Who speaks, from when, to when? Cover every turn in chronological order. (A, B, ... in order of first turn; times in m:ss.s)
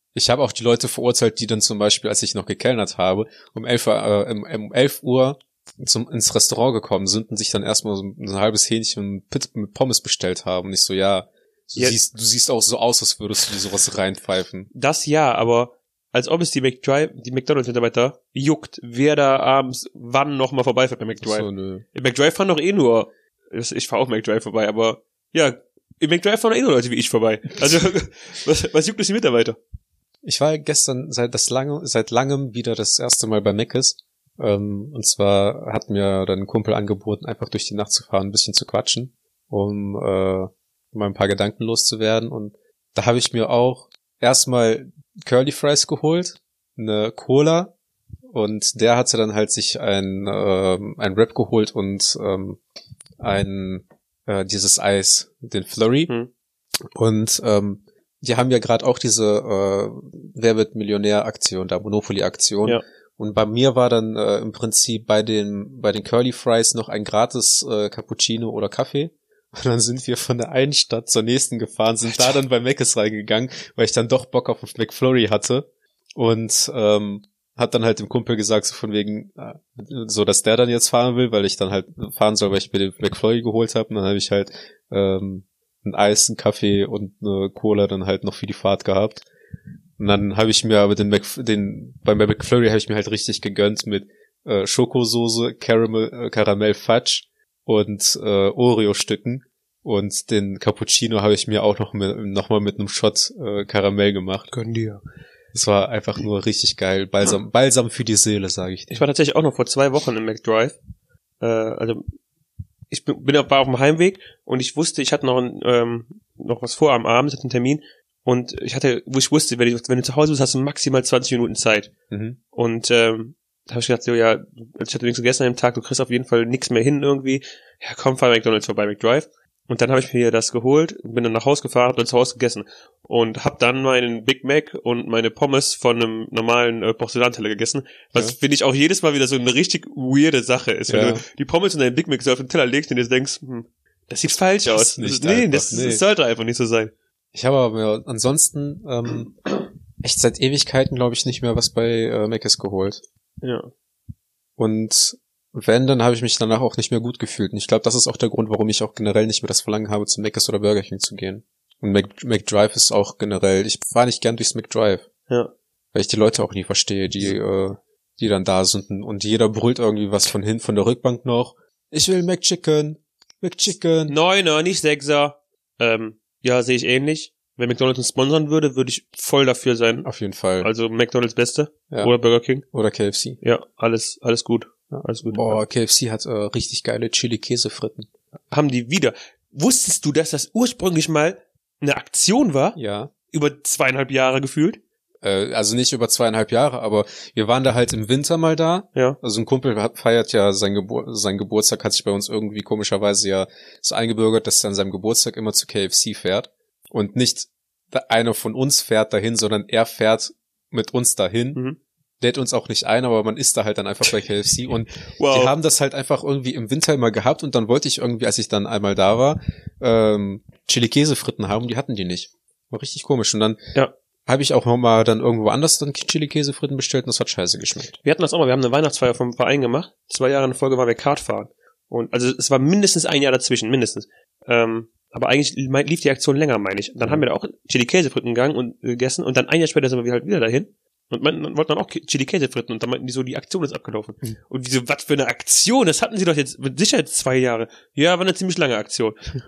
0:00.2-0:14.7 A
0:14.7-0:29.6 B
0:21.2-0:21.8 A
0:30.2-0:47.7 A
0:48.3-0:52.6 A
0:53.2-0:56.1 A
0:57.0-1:29.3 A
1:12.1-1:12.4 B
1:30.0-1:44.5 A
1:44.5-1:45.0 B
1:45.5-1:49.0 A
1:48.9-1:50.8 B
1:51.4-1:52.0 B
1:52.9-2:01.9 B
2:02.1-2:02.4 A
2:02.5-2:26.9 B
2:20.9-2:21.2 A
2:24.7-2:26.0 A
2:27.3-2:29.4 A
2:30.0-2:33.0 A
2:33.4-2:33.7 B
2:34.6-2:45.1 A
2:45.9-2:54.2 A
2:54.1-3:00.1 B
3:00.0-3:00.7 A
3:00.6-3:02.6 B
3:02.7-3:03.4 A
3:03.4-3:05.6 B
3:04.9-3:08.1 A
3:08.5-3:12.8 B
3:12.8-3:13.1 A
3:13.3-3:14.8 B
3:15.2-3:31.6 A
3:32.2-3:43.6 A
3:35.2-3:35.5 B
3:44.3-3:47.9 A
3:48.0-4:09.2 B